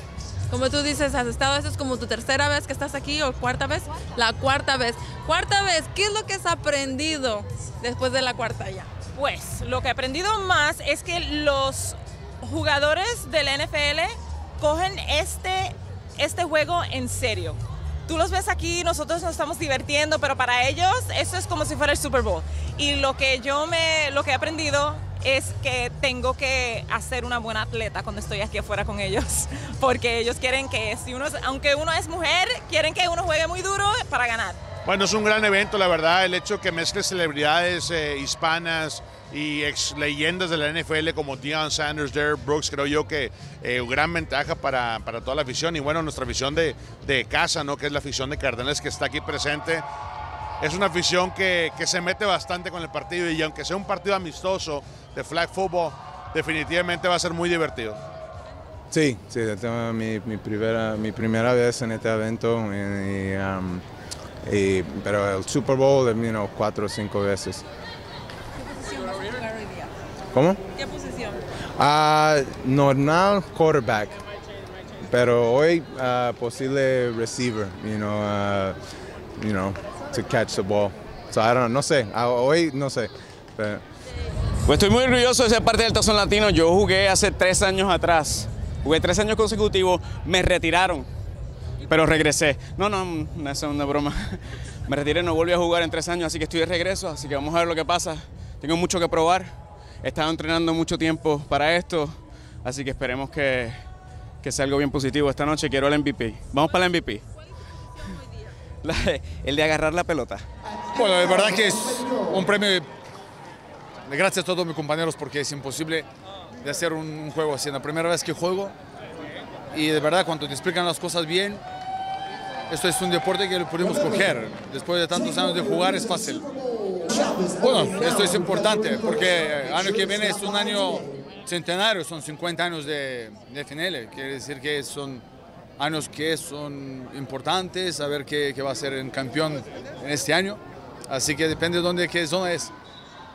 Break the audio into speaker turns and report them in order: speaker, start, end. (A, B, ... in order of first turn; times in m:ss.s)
0:00.5-0:08.9 A
0:09.1-0:34.6 B
0:34.8-0:49.8 C
0:50.6-0:58.0 C
0:58.9-1:03.8 D
1:04.4-1:07.6 D
1:08.6-1:09.9 A
1:10.3-1:10.6 D
1:10.9-1:11.3 A
1:11.8-1:14.2 D
1:15.0-1:18.8 D
1:19.4-1:23.8 D
1:24.6-1:31.1 E
1:31.9-1:43.8 E
1:44.4-1:47.2 E
1:48.8-1:50.4 E
1:50.9-1:52.9 F
1:54.1-1:56.1 F
1:56.6-1:58.7 F
1:59.7-2:01.6 F
2:02.7-2:06.4 F
2:07.5-2:15.2 F
2:15.8-2:22.7 F